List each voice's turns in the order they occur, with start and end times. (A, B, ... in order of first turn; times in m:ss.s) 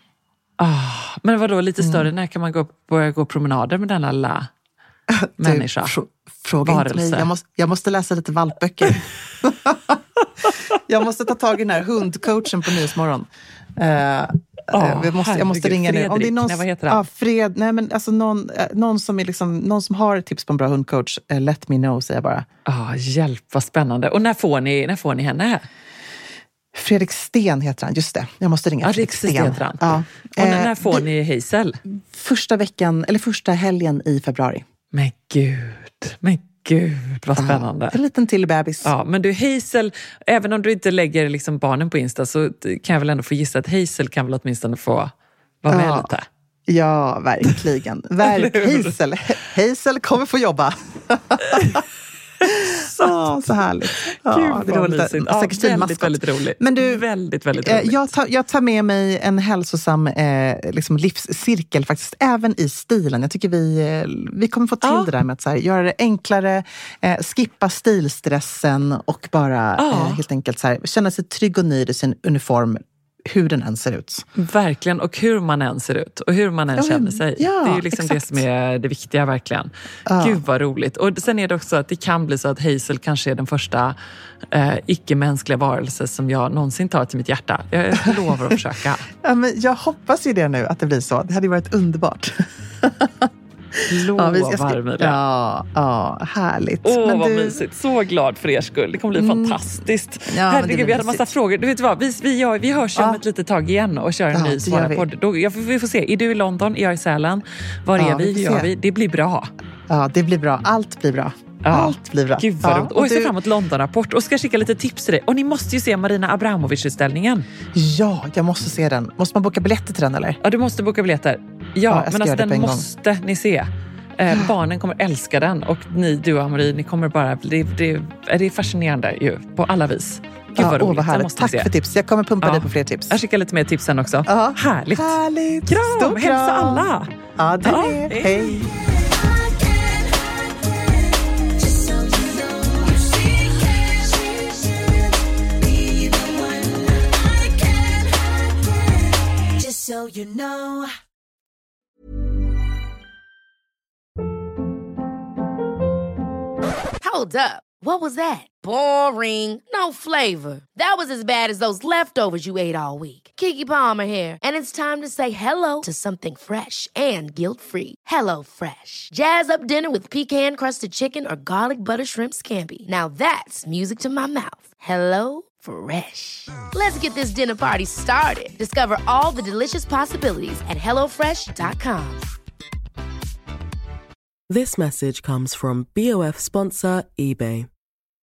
0:00.6-0:04.5 A
0:01.8-0:02.1 B
0:05.1-0:10.0 B
0:05.4-0:06.0 A
0:06.6-0:07.3 A
0:10.8-0:22.5 B
0:14.7-0:17.0 A
0:22.7-0:25.7 A
0:26.7-0:31.0 B
0:28.8-0:31.8 A
0:31.9-0:34.6 B
0:34.9-0:38.0 A
0:37.4-0:38.9 B
0:38.8-0:45.1 A
0:45.6-0:46.3 A
0:45.7-0:46.1 B
0:46.7-0:51.8 B
0:48.2-0:49.0 A
0:51.4-0:51.8 A
0:52.4-0:53.4 A
0:52.4-0:57.0 B
0:54.0-0:58.1 A
0:57.6-1:14.2 B
1:04.8-1:05.1 A
1:09.8-1:10.2 A
1:14.4-1:24.0 A
1:16.7-1:18.4 B
1:20.1-1:20.4 B
1:24.5-1:29.1 A
1:29.2-1:37.6 B
1:33.9-1:35.2 A
1:36.8-1:49.5 A
1:39.2-1:39.6 B
1:40.3-1:41.3 B
1:43.0-1:43.2 B
1:44.3-1:45.1 B
1:48.0-1:48.7 B
1:49.9-1:53.3 B
1:51.6-1:57.5 A
1:57.7-2:00.4 B
2:00.4-2:11.7 A
2:01.9-2:02.8 B
2:10.6-2:13.2 B
2:12.4-2:17.1 A
2:14.3-2:18.7 B
2:17.6-2:18.6 A
2:18.5-2:30.9 C
2:37.0-3:02.2 D
3:04.5-3:07.7 E